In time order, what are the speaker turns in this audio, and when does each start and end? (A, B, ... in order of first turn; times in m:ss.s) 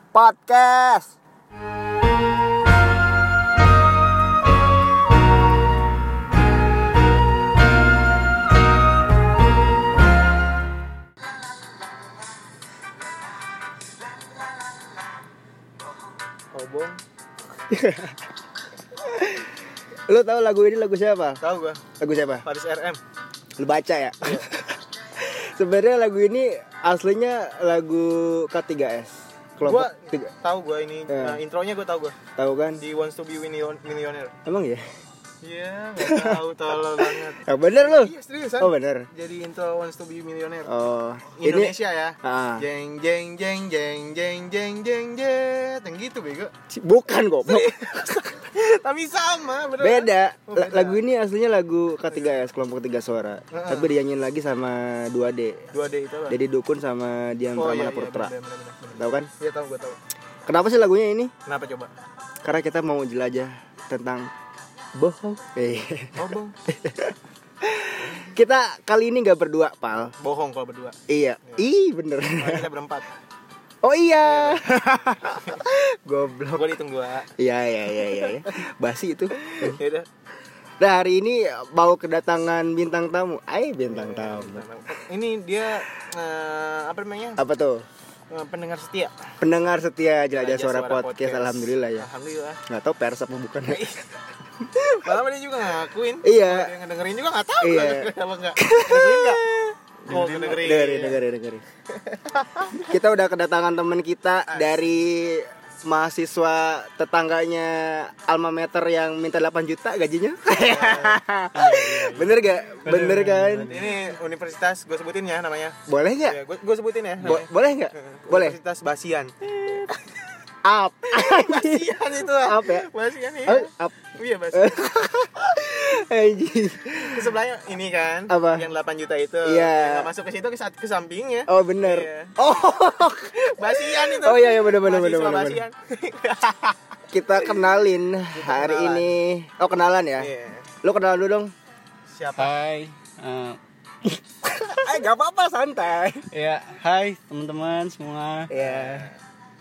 0:00.1-0:01.1 A
0:16.5-0:17.0 B
0:17.7-0:18.2 A
0:19.0-0:19.5 A
0:20.1-0:21.4 A
0:21.4-0:21.8 B
0:22.0-0:22.4 A
0:22.4-0:23.0 B
0:23.6-0:30.3 A
0:24.2-0:24.5 B
0:29.6-0:32.1 B
0:31.1-0:31.4 A
0:32.4-0:32.8 A
0:32.8-0:34.3 B
0:34.4-0:34.8 A
0:35.4-0:40.7 B
0:36.0-0:36.4 A
0:36.9-0:39.1 A
0:40.7-0:42.6 A
0:41.4-0:46.5 B
0:46.7-0:48.2 A
0:47.5-0:51.0 B
0:49.8-0:55.7 A
0:53.5-0:53.9 B
0:55.7-0:56.4 B
0:56.3-0:58.3 A
0:57.5-1:00.0 B
0:59.0-0:59.3 A
1:00.5-1:01.3 A
1:01.4-1:01.9 B
1:02.4-1:04.3 A
1:05.0-1:10.1 A
1:06.2-1:06.6 B
1:10.2-1:11.6 B
1:11.1-1:12.6 A
1:12.4-1:13.0 B
1:13.8-1:16.7 A
1:14.2-1:14.6 B
1:16.5-1:17.3 B
1:17.4-1:19.8 A
1:19.4-1:20.1 B
1:20.8-1:24.6 A
1:23.9-1:27.4 B
1:27.4-1:27.8 A
1:28.3-1:29.1 B
1:29.4-1:32.0 A
1:30.3-1:32.6 B
1:32.7-1:33.9 A
1:33.7-1:34.0 B
1:34.6-1:35.2 A
1:35.0-1:39.5 B
1:36.2-1:36.7 A
1:37.6-1:41.6 A
1:40.1-1:41.2 B
1:42.0-1:42.8 B
1:42.8-1:53.7 A
1:44.5-1:44.9 B
1:50.6-1:51.2 B
1:51.5-1:53.9 C
1:52.9-1:59.9 B
1:55.9-1:56.4 A
1:57.2-1:58.6 A
2:00.6-2:02.8 A
2:01.1-2:04.8 B
2:03.4-2:07.3 A
2:07.0-2:12.4 B
2:08.3-2:08.7 A
2:09.4-2:10.1 A
2:11.5-2:15.6 A
2:13.6-2:16.8 B
2:17.1-2:20.3 A
2:18.3-2:19.1 B
2:20.2-2:20.7 B
2:20.8-2:21.5 A
2:22.1-2:22.5 B
2:22.4-2:23.6 C
2:24.4-2:26.3 A
2:26.3-2:28.5 C
2:28.5-2:29.1 A
2:28.5-2:29.1 B